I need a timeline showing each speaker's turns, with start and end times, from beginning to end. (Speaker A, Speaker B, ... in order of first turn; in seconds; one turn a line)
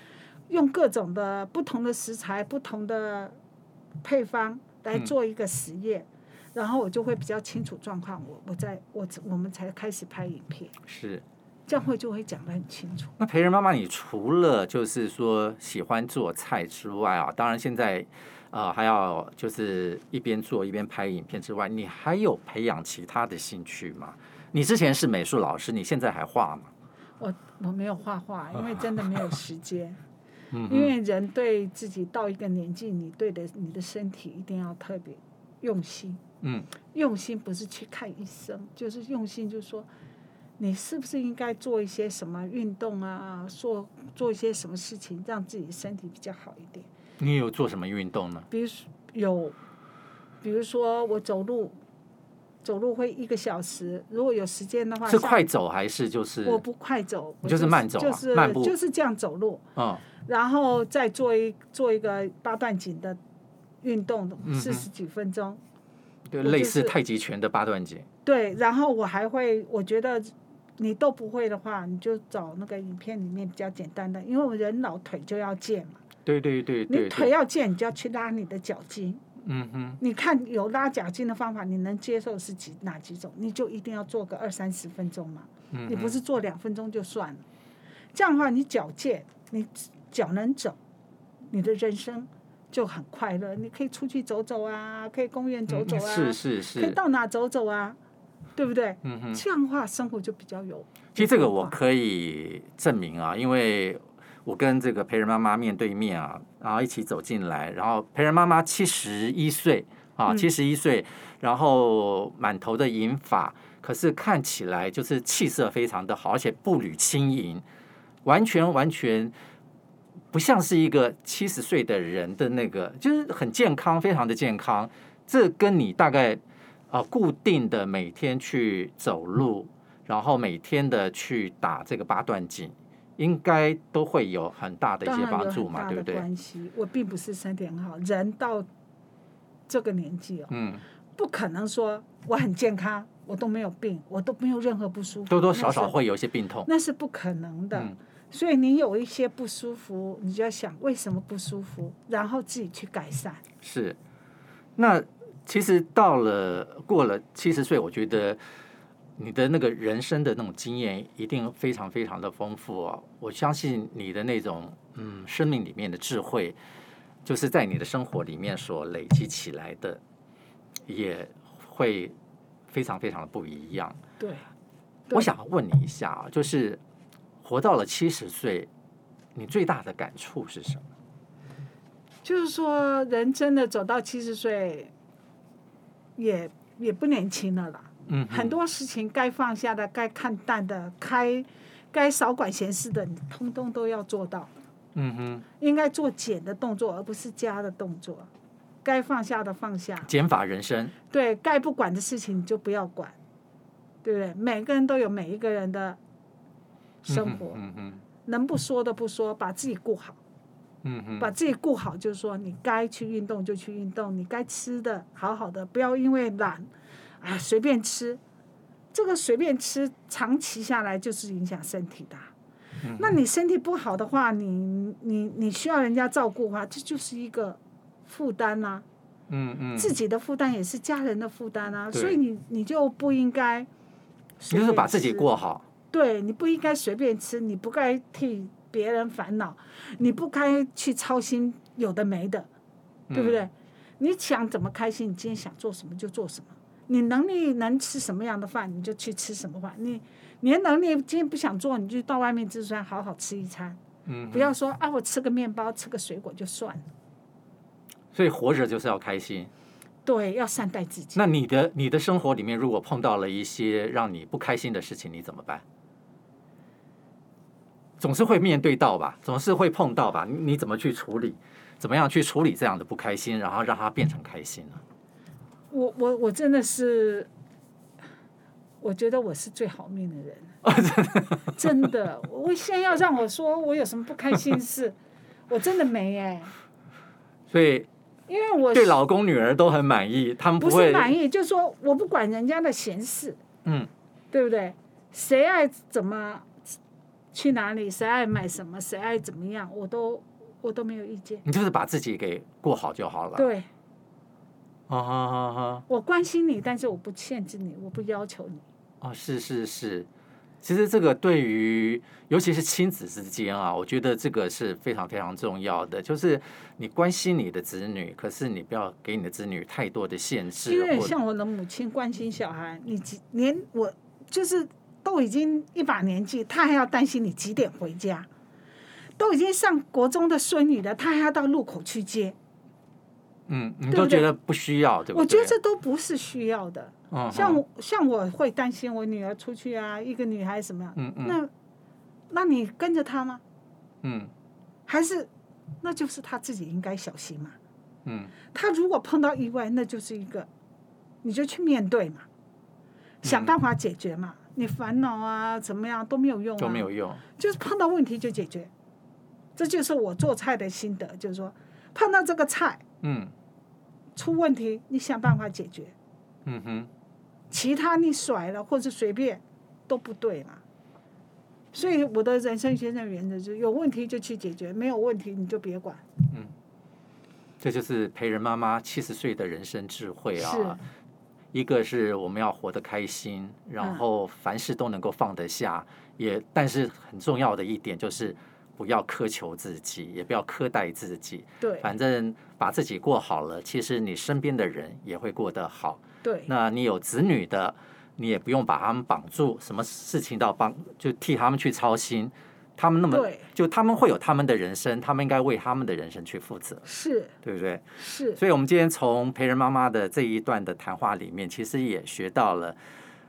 Speaker A: 0.5-3.4
Speaker A: 4.0-10.8
Speaker B: 10.9-11.2
Speaker A: 11.7-13.1
Speaker B: 13.2-26.7
Speaker A: 27.2-30.0
Speaker B: 30.5-30.9
Speaker A: 30.7-36.2
Speaker B: 36.4-36.7
Speaker A: 36.9-39.9
Speaker A: 40.6-46.9
Speaker B: 47.2-48.5
Speaker A: 48.5-49.6
Speaker A: 50.4-51.8
Speaker A: 52.6-55.5
Speaker B: 55.0-56.6
Speaker A: 56.5-59.6
Speaker B: 57.4-58.8
Speaker B: 59.8-60.0
Speaker A: 60.2-63.2
Speaker A: 63.8-65.6
Speaker B: 64.5-64.9
Speaker B: 66.3-68.1
Speaker A: 66.4-67.0
Speaker A: 68.2-76.0
Speaker B: 76.2-77.3
Speaker A: 76.9-79.2
Speaker B: 79.4-80.0
Speaker A: 80.0-87.4
Speaker B: 85.7-86.2
Speaker A: 88.1-90.8
Speaker A: 91.5-98.0
Speaker B: 95.7-97.0
Speaker A: 98.6-101.8
Speaker B: 99.0-99.4
Speaker B: 101.2-117.6
Speaker B: 118.2-119.3
Speaker B: 120.3-136.3
Speaker A: 135.0-138.7
Speaker A: 139.7-140.5
Speaker B: 140.5-140.8
Speaker A: 141.2-146.0
Speaker B: 145.3-146.7
Speaker A: 146.7-153.4
Speaker B: 153.6-154.0
Speaker B: 154.8-158.4
Speaker B: 159.2-166.6
Speaker B: 167.2-170.0
Speaker B: 170.9-172.2
Speaker B: 172.7-174.0
Speaker A: 174.2-174.4
Speaker B: 175.1-176.8
Speaker B: 177.4-178.7
Speaker B: 179.4-180.8
Speaker A: 182.2-184.9
Speaker A: 186.2-194.5
Speaker B: 188.1-188.6
Speaker B: 194.9-195.4
Speaker A: 195.6-198.3
Speaker A: 198.8-200.1
Speaker B: 200.0-200.9
Speaker A: 201.1-203.2
Speaker A: 204.0-206.0
Speaker A: 207.1-207.6
Speaker B: 207.1-208.0
Speaker A: 208.2-210.2
Speaker B: 210.8-211.3
Speaker A: 211.2-216.7
Speaker A: 217.2-218.2
Speaker A: 218.9-222.3
Speaker B: 222.8-223.1
Speaker A: 223.0-228.8
Speaker B: 229.3-229.9
Speaker A: 229.8-233.7
Speaker B: 231.9-232.2
Speaker A: 234.4-235.3
Speaker B: 234.5-235.7
Speaker A: 235.9-242.5
Speaker B: 243.1-243.5
Speaker A: 243.1-253.8
Speaker B: 254.1-254.6
Speaker A: 254.3-256.8
Speaker B: 258.1-259.5
Speaker A: 260.1-261.2
Speaker B: 261.1-265.6
Speaker B: 268.0-274.8
Speaker A: 275.7-277.3
Speaker A: 278.8-280.6
Speaker B: 280.6-281.6
Speaker A: 281.4-285.0
Speaker A: 285.5-286.5
Speaker B: 287.5-287.9
Speaker A: 288.3-289.0
Speaker B: 288.7-291.1
Speaker A: 290.6-293.4
Speaker B: 293.6-293.9
Speaker A: 294.3-296.5
Speaker A: 297.3-301.4
Speaker B: 301.4-303.5
Speaker A: 303.4-303.7
Speaker B: 304.9-305.8
Speaker A: 305.9-308.6
Speaker B: 309.0-310.1
Speaker B: 310.6-321.1
Speaker A: 320.6-328.3
Speaker A: 329.2-332.4
Speaker B: 333.5-335.6
Speaker A: 333.9-334.3
Speaker A: 335.1-341.5
Speaker B: 337.1-337.6
Speaker B: 341.0-341.4
Speaker A: 342.3-343.4
Speaker B: 344.0-344.3
Speaker A: 344.9-345.3
Speaker A: 345.8-347.6
Speaker B: 348.1-348.3
Speaker A: 348.5-350.5
Speaker A: 351.2-352.2
Speaker A: 353.2-358.7
Speaker B: 353.2-353.5
Speaker B: 356.6-357.2
Speaker A: 359.6-362.8
Speaker B: 363.0-363.3
Speaker A: 364.2-365.9
Speaker B: 366.5-366.9
Speaker A: 367.5-370.6
Speaker A: 371.7-376.0
Speaker B: 377.6-380.8
Speaker A: 380.4-380.8
Speaker B: 381.5-406.8
Speaker A: 391.6-391.9
Speaker A: 396.2-396.5
Speaker A: 403.1-403.4
Speaker A: 406.8-407.4
Speaker B: 407.4-412.8
Speaker A: 408.0-408.4